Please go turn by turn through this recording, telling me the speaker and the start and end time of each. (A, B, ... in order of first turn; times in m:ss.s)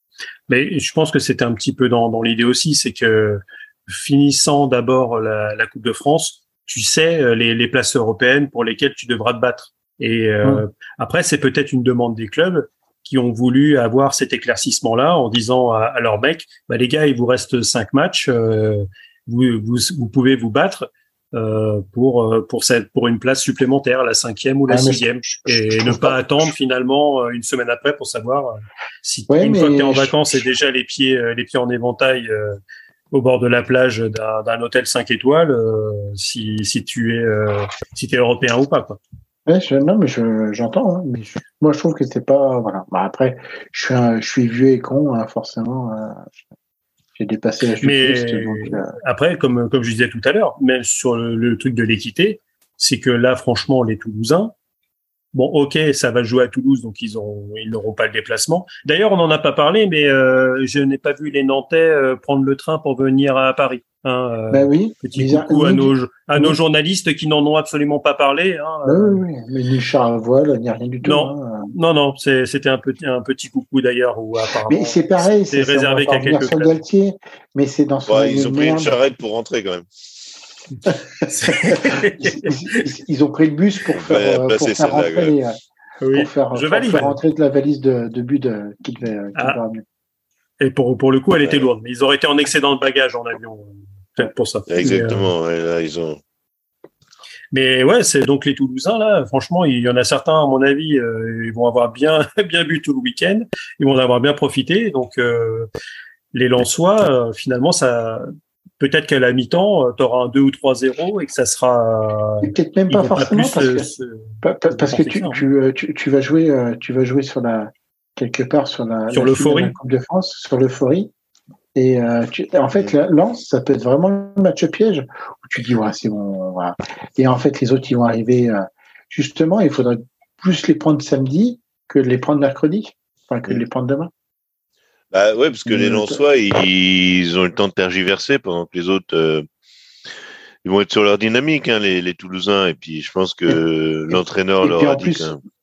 0:00.5-0:32.6 A
0:24.7-0:26.5 B
0:29.3-0:30.5 B
0:33.1-0:39.0 A
0:39.4-0:46.2 B
0:47.2-0:48.9 B
0:47.8-0:54.5 A
0:55.3-1:09.2 A
1:04.5-1:06.6 B
1:08.8-1:11.7 B
1:11.0-1:16.8 A
1:14.7-1:19.0 B
1:18.1-1:19.9 C
1:21.2-1:25.6 B
1:21.3-1:22.8 A
1:23.9-1:25.4 C
1:26.0-1:27.2 A
1:26.1-1:29.8 B
1:30.6-1:35.3 A
1:34.7-1:36.2 C
1:37.5-1:45.7 A
1:46.3-1:55.4 A
1:52.4-1:53.9 B
1:54.4-2:01.1 B
1:59.1-1:59.8 A
2:01.7-2:14.1 B
2:15.1-2:19.4 C
2:15.6-2:16.2 B
2:20.6-2:25.4 C
2:23.5-2:25.3 B